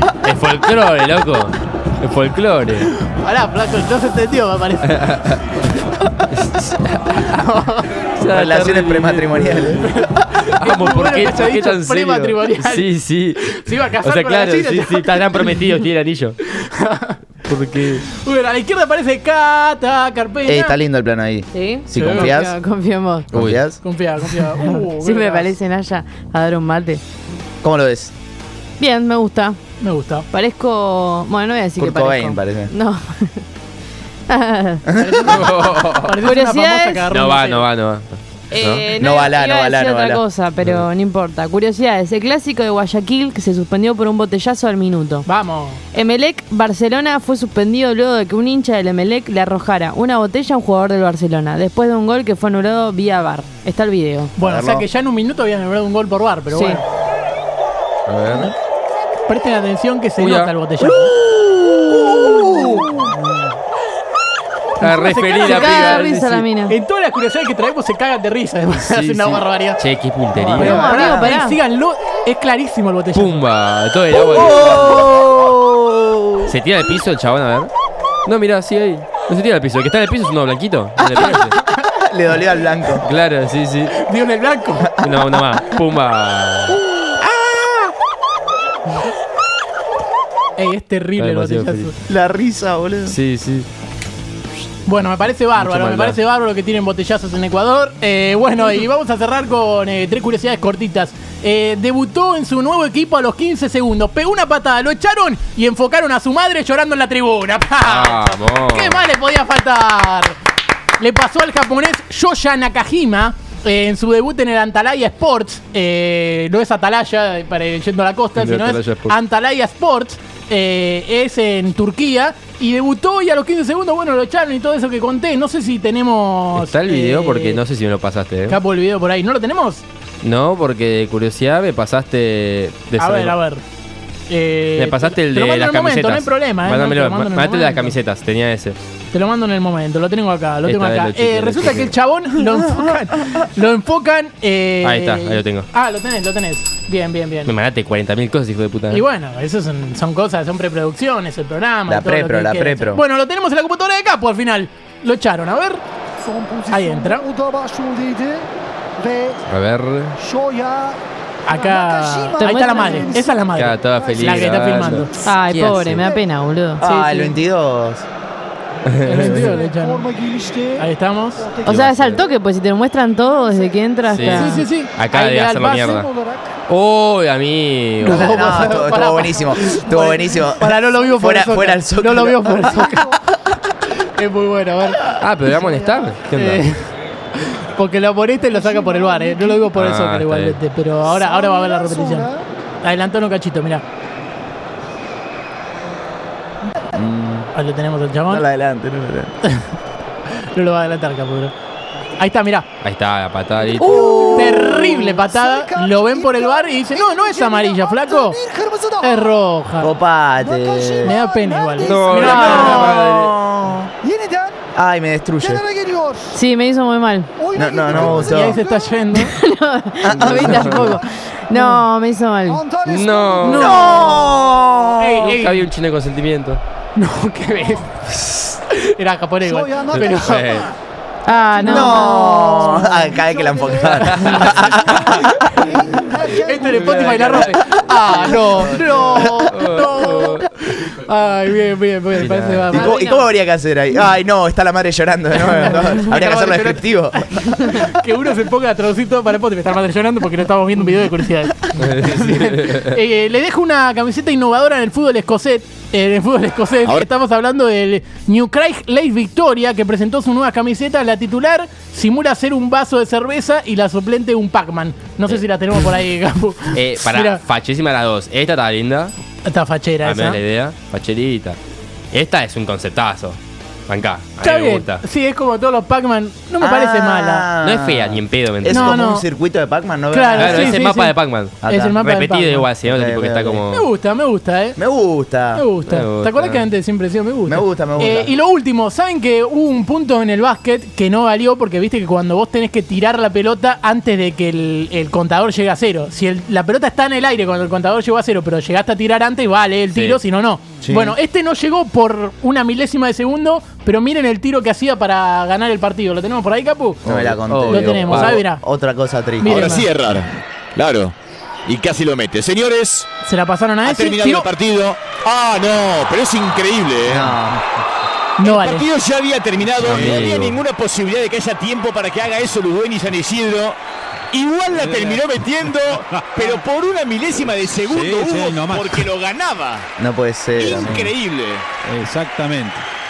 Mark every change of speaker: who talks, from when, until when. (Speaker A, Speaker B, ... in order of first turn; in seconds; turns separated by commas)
Speaker A: 0.2-2.9, Speaker B: 3.0-5.2, Speaker A: 4.9-5.4, Speaker A: 6.3-7.5, Speaker B: 7.2-7.9, Speaker A: 8.2-9.9, Speaker C: 8.3-9.8, Speaker B: 9.8-15.5, Speaker A: 10.5-16.4, Speaker B: 16.5-17.2, Speaker A: 17.4-18.0, Speaker B: 17.9-20.8, Speaker C: 20.5-22.6, Speaker D: 21.5-23.3, Speaker B: 21.9-22.3, Speaker C: 23.3-23.8, Speaker A: 23.3-23.6, Speaker B: 23.8-25.5, Speaker D: 24.8-27.0, Speaker C: 27.6-28.1, Speaker D: 28.8-29.6, Speaker B: 29.8-30.3, Speaker D: 30.3-33.4, Speaker C: 31.8-32.7, Speaker D: 34.3-34.9, Speaker C: 34.9-35.4, Speaker B: 35.0-37.7, Speaker A: 35.2-36.1, Speaker D: 36.2-37.1, Speaker A: 37.1-38.9, Speaker D: 38.5-45.3, Speaker C: 39.0-40.2, Speaker A: 40.6-40.9, Speaker B: 45.2-45.8, Speaker D: 45.9-54.3, Speaker B: 54.4-56.8, Speaker C: 54.4-54.9, Speaker D: 56.5-56.8, Speaker A: 58.1-58.5, Speaker B: 59.3-61.2, Speaker A: 60.2-60.5, Speaker C: 61.2-63.2, Speaker B: 64.8-66.1, Speaker A: 64.8-66.5, Speaker D: 65.5-66.8, Speaker B: 66.7-69.8, Speaker A: 68.8-70.9, Speaker C: 70.4-71.4, Speaker B: 70.5-73.4, Speaker D: 70.6-71.6, Speaker A: 73.1-75.1, Speaker C: 74.1-76.5, Speaker A: 76.5-77.7, Speaker A: 78.3-81.5, Speaker C: 81.0-83.0, Speaker A: 83.0-84.0, Speaker B: 84.0-85.0, Speaker A: 85.0-86.8, Speaker C: 87.0-87.9, Speaker B: 90.6-91.9, Speaker A: 91.2-91.9, Speaker C: 92.1-93.2, Speaker A: 93.1-93.7, Speaker B: 94.9-110.4, Speaker A: 95.6-96.2, Speaker A: 107.8-109.0, Speaker B: 111.0-127.6, Speaker A: 118.4-119.2, Speaker A: 126.6-128.6, Speaker B: 128.5-129.8, Speaker A: 130.2-133.4, Speaker B: 133.0-133.6, Speaker B: 134.3-138.0, Speaker A: 134.8-138.8, Speaker B: 139.1-147.5, Speaker A: 140.6-141.9, Speaker A: 144.8-145.7, Speaker A: 147.5-149.0, Speaker B: 148.9-155.8, Speaker C: 151.9-153.0, Speaker E: 156.2-159.4, Speaker B: 156.7-157.2, Speaker A: 159.5-160.2, Speaker E: 160.2-164.5, Speaker B: 161.5-165.1, Speaker D: 162.4-163.2, Speaker A: 163.5-166.1, Speaker E: 165.2-166.2, Speaker D: 165.2-167.3, Speaker C: 166.8-168.0, Speaker A: 168.9-169.4, Speaker B: 169.0-170.1, Speaker E: 169.3-170.9, Speaker B: 170.8-171.5, Speaker E: 171.4-171.7, Speaker A: 171.7-172.3, Speaker D: 171.7-174.7, Speaker E: 173.3-173.9, Speaker A: 174.1-176.1, Speaker B: 174.3-176.1, Speaker E: 175.8-176.5, Speaker A: 176.7-178.4, Speaker B: 178.0-183.2, Speaker C: 178.0-183.0, Speaker B: 184.0-185.1, Speaker A: 185.2-186.7, Speaker E: 185.8-186.1, Speaker B: 186.3-186.9, Speaker B: 187.5-193.8, Speaker E: 188.5-189.7, Speaker A: 189.8-190.6, Speaker E: 191.2-192.4, Speaker C: 196.9-197.5, Speaker B: 197.6-198.5, Speaker C: 198.3-199.3, Speaker B: 200.5-201.5, Speaker B: 202.2-202.7, Speaker A: 202.8-204.2, Speaker C: 203.8-205.2, Speaker B: 203.8-208.4, Speaker E: 204.8-209.3, Speaker B: 209.0-209.9, Speaker C: 209.8-211.2, Speaker E: 210.4-212.8, Speaker B: 211.0-213.0, Speaker A: 211.8-213.3, Speaker C: 212.1-213.9, Speaker E: 214.0-214.7, Speaker C: 214.7-215.6, Speaker E: 215.4-216.4, Speaker D: 216.3-217.3, Speaker E: 217.4-218.8, Speaker C: 217.6-218.6, Speaker A: 218.0-218.3, Speaker B: 218.1-219.4, Speaker D: 219.1-222.6, Speaker C: 220.0-221.0, Speaker A: 220.2-221.0, Speaker E: 222.5-223.7, Speaker A: 222.8-223.8, Speaker B: 223.4-224.3, Speaker C: 223.4-225.3, Speaker D: 223.7-224.2, Speaker B: 225.0-225.7, Speaker A: 225.2-226.6, Speaker B: 227.0-228.1, Speaker A: 228.2-228.5, Speaker B: 228.7-230.6, Speaker E: 229.4-230.2, Speaker A: 229.9-230.7, Speaker D: 231.3-233.0, Speaker E: 231.4-232.1, Speaker C: 231.6-235.7, Speaker E: 233.0-235.0, Speaker A: 234.0-234.9, Speaker E: 235.6-237.3, Speaker B: 236.4-243.1, Speaker A: 236.6-237.5, Speaker C: 238.1-238.7, Speaker A: 238.3-240.5, Speaker A: 242.2-242.7, Speaker C: 242.7-247.9, Speaker D: 242.7-243.3, Speaker B: 245.4-267.4, Speaker A: 251.8-253.0, Speaker A: 266.7-269.1, Speaker B: 269.5-270.4, Speaker A: 270.0-271.6, Speaker A: 272.1-273.4, Speaker A: 273.9-275.0, Speaker B: 274.4-277.5, Speaker C: 276.6-280.8, Speaker A: 277.6-279.0, Speaker B: 278.7-279.3, Speaker B: 280.1-281.2, Speaker A: 280.4-283.9, Speaker C: 281.6-282.0, Speaker B: 281.7-282.7, Speaker C: 282.9-283.6, Speaker B: 283.7-284.8, Speaker C: 284.8-285.6, Speaker B: 285.5-307.0, Speaker A: 285.9-286.7, Speaker C: 287.5-288.3, Speaker A: 299.9-300.2, Speaker C: 300.8-301.2, Speaker A: 307.1-308.4, Speaker C: 307.1-309.9, Speaker B: 307.7-308.6, Speaker B: 309.4-309.9, Speaker F: 309.4-311.1, Speaker F: 311.7-313.1, Speaker B: 313.2-314.5, Speaker F: 313.8-317.3, Speaker C: 317.1-317.6, Speaker B: 318.4-318.9, Speaker F: 318.4-323.8, Speaker A: 319.8-320.6, Speaker F: 324.3-329.9, Speaker G: 324.7-325.2, Speaker G: 327.9-329.1, Speaker C: 330.0-331.1, Speaker F: 330.6-331.7, Speaker G: 331.8-332.9